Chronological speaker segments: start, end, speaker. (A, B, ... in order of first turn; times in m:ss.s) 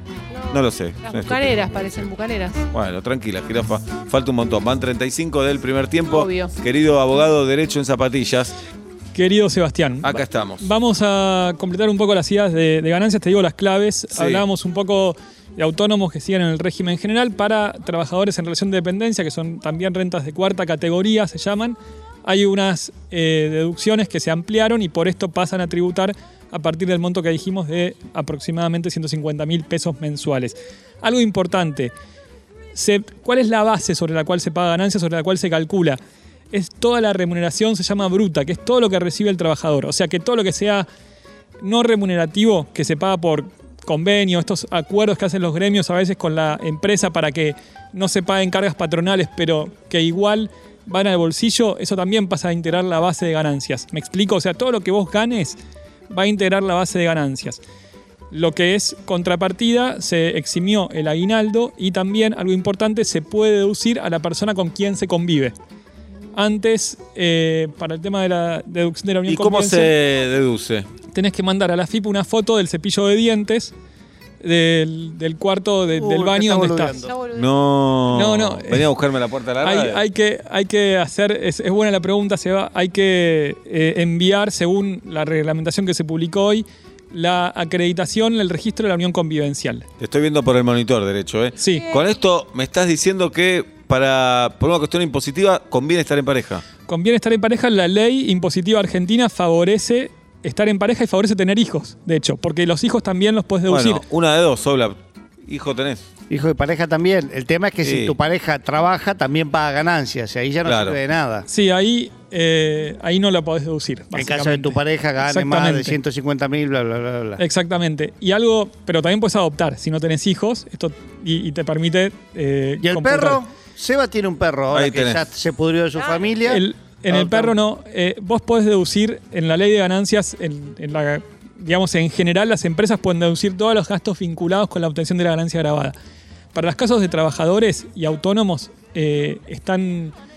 0:00.3-0:02.6 A
0:00.5-0:01.5 B
0:02.7-0:08.5 B
0:06.1-0:06.5 A
0:09.1-0:31.9 C
0:10.0-0:10.6 B
0:14.1-0:14.4 B
0:32.7-0:36.0 C
0:36.5-0:40.9 C
0:41.6-0:57.6 C
0:58.3-1:05.5 C
1:06.3-1:09.9 C
1:09.2-1:10.9 B
1:11.1-1:13.7 C
1:14.4-1:17.0 C
1:15.9-1:17.1 D
1:17.0-1:17.5 A
1:17.3-1:20.0 B
1:18.1-1:18.9 C
1:19.6-1:29.8 C
1:30.0-1:36.6 B
1:31.6-1:31.9 C
1:36.9-1:44.0 C
1:43.7-1:46.0 B
1:46.3-1:51.5 D
1:47.8-1:48.1 B
1:50.6-1:51.0 B
1:51.5-1:56.0 C
1:54.1-1:57.4 D
1:57.4-2:03.4 C
2:02.8-2:07.5 D
2:04.7-2:05.2 B
2:06.5-2:15.9 C
2:16.5-2:20.1 C